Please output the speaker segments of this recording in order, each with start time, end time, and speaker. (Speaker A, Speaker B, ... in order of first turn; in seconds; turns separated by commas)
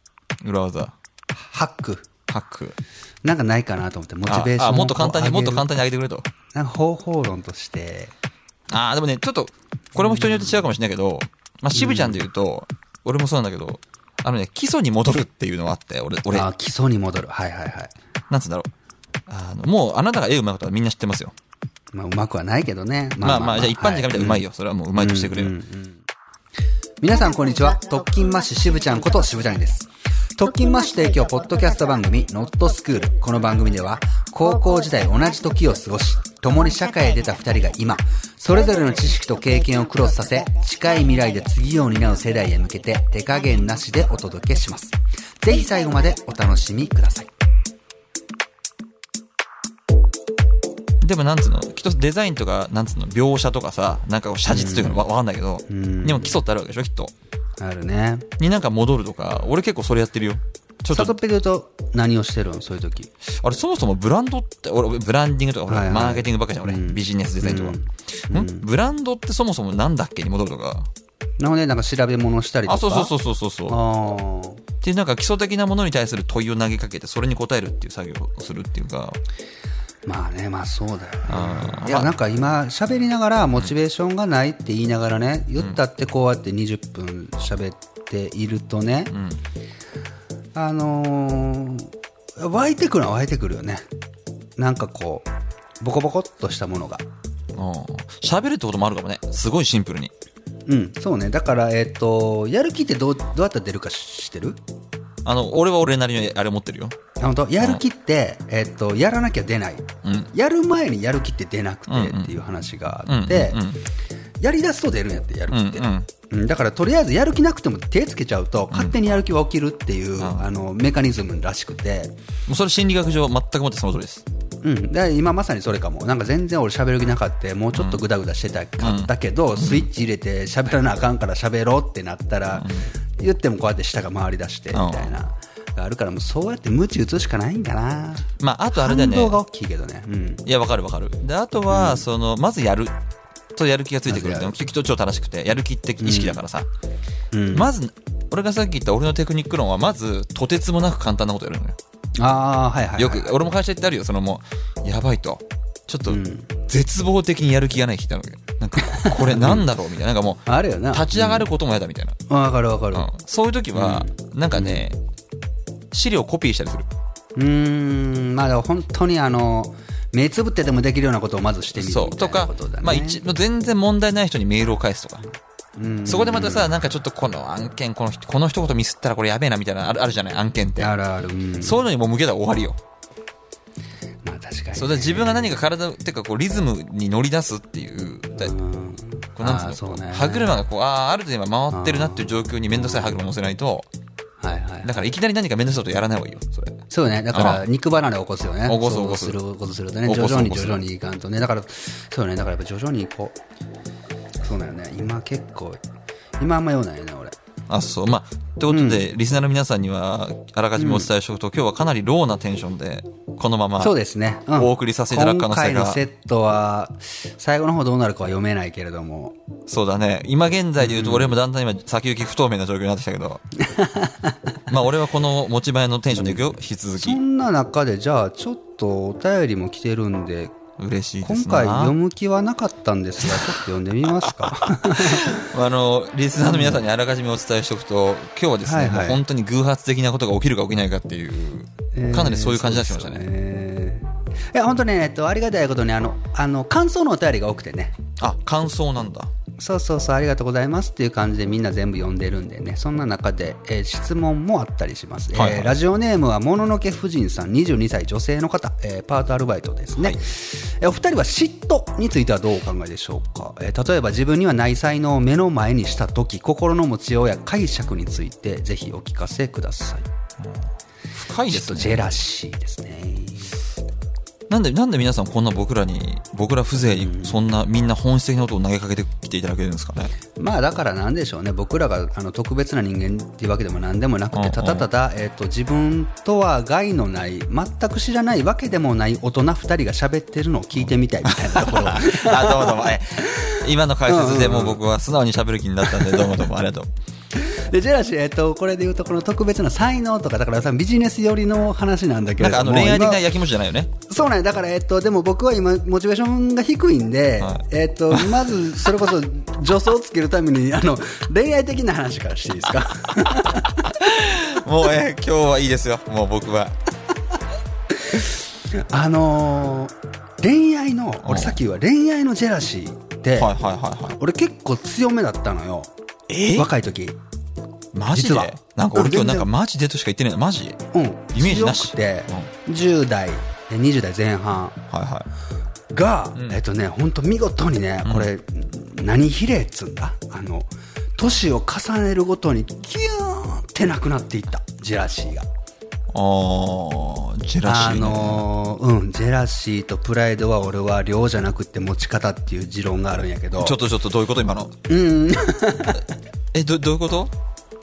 Speaker A: 0.4-0.9, Speaker B: 1.3-2.1, Speaker A: 2.3-2.8, Speaker B: 3.2-5.7, Speaker A: 4.3-6.2, Speaker B: 6.5-8.1, Speaker A: 8.7-16.5, Speaker B: 10.0-10.6, Speaker B: 11.7-12.2, Speaker B: 16.3-17.9, Speaker A: 18.3-18.7, Speaker A: 19.3-21.3, Speaker B: 21.9-24.4, Speaker A: 23.2-25.6, Speaker B: 24.9-26.0, Speaker B: 27.0-47.3, Speaker A: 51.0-57.1, Speaker B: 54.5-55.1, Speaker B: 55.7-56.4, Speaker B: 57.6-58.3, Speaker A: 58.4-61.1, Speaker B: 60.9-63.1, Speaker A: 63.4-70.9, Speaker B: 65.7-68.7, Speaker B: 71.4-73.1, Speaker A: 72.7-73.8, Speaker B: 73.7-74.6, Speaker A: 74.8-79.2, Speaker B: 80.0-89.1, Speaker A: 81.3-82.1, Speaker A: 89.1-89.4, Speaker B: 90.5-93.8, Speaker B: 94.6-95.3, Speaker B: 95.8-97.0, Speaker A: 97.5-100.1, Speaker B: 100.7-104.6, Speaker A: 105.2-107.0, Speaker B: 107.2-113.6, Speaker A: 110.0-110.3, Speaker A: 111.9-112.3, Speaker A: 113.0-113.8, Speaker B: 114.4-122.1, Speaker A: 115.5-116.1, Speaker A: 118.7-119.0, Speaker A: 120.2-120.5, Speaker A: 122.5-124.2, Speaker B: 124.6-140.4, Speaker A: 127.7-128.0, Speaker A: 128.8-129.9, Speaker A: 132.5-132.9, Speaker A: 134.7-135.2, Speaker A: 138.4-139.4, Speaker A: 140.4-142.9, Speaker B: 141.7-142.0, Speaker A: 143.5-146.7, Speaker B: 144.1-144.5, Speaker B: 146.0-146.4, Speaker B: 147.3-147.7, Speaker A: 147.5-151.8, Speaker B: 152.2-153.4, Speaker A: 153.0-162.1, Speaker B: 156.1-156.5, Speaker B: 158.9-159.7, Speaker B: 160.5-161.5, Speaker B: 162.3-163.1, Speaker A: 162.9-165.0, Speaker B: 163.7-164.8, Speaker A: 165.9-166.9, Speaker B: 167.3-173.2, Speaker A: 171.7-175.2, Speaker B: 175.8-176.7, Speaker A: 176.1-180.9, Speaker B: 180.8-181.8, Speaker A: 181.6-182.8, Speaker B: 184.2-185.6, Speaker A: 184.7-188.5, Speaker B: 188.3-190.6, Speaker A: 189.4-193.8, Speaker B: 191.7-193.2, Speaker B: 194.4-195.0, Speaker A: 194.8-196.8, Speaker B: 196.9-203.3, Speaker A: 197.3-197.7, Speaker A: 198.6-199.4, Speaker A: 200.0-200.8, Speaker B: 204.4-205.8, Speaker B: 206.4-207.3, Speaker A: 207.7-213.9, Speaker B: 208.7-209.0, Speaker B: 210.8-211.1, Speaker B: 213.8-219.3, Speaker A: 214.5-216.0, Speaker A: 219.7-223.4, Speaker B: 220.8-221.3, Speaker B: 223.6-224.5, Speaker A: 224.7-227.2, Speaker B: 227.0-230.5, Speaker A: 230.8-231.9, Speaker B: 231.2-235.5, Speaker A: 233.3-243.2, Speaker B: 236.4-236.8, Speaker B: 238.6-239.2, Speaker B: 241.9-247.9, Speaker A: 248.2-249.3, Speaker B: 249.6-270.1, Speaker A: 255.3-255.8, Speaker A: 270.4-272.1, Speaker B: 271.4-273.6, Speaker A: 274.5-280.1, Speaker B: 276.9-277.4, Speaker B: 280.4-294.8, Speaker A: 284.3-284.9, Speaker A: 291.2-296.9, Speaker B: 296.0-296.3, Speaker B: 297.3-303.2, Speaker A: 302.4-303.9, Speaker B: 304.1-313.9, Speaker A: 307.4-308.4, Speaker A: 313.9-316.8, Speaker B: 318.1-323.5, Speaker A: 321.2-321.6, Speaker A: 323.4-324.2, Speaker B: 324.2-325.9, Speaker A: 326.3-326.7, Speaker B: 326.5-327.2, Speaker A: 327.9-330.8, Speaker B: 328.1-329.5, Speaker B: 330.9-334.8, Speaker A: 331.3-332.5, Speaker A: 334.9-335.3, Speaker B: 335.9-345.4, Speaker A: 336.3-336.6, Speaker A: 338.0-338.3, Speaker A: 346.1-348.4, Speaker B: 347.6-353.8, Speaker A: 353.6-354.8, Speaker B: 354.9-356.1, Speaker A: 356.5-357.3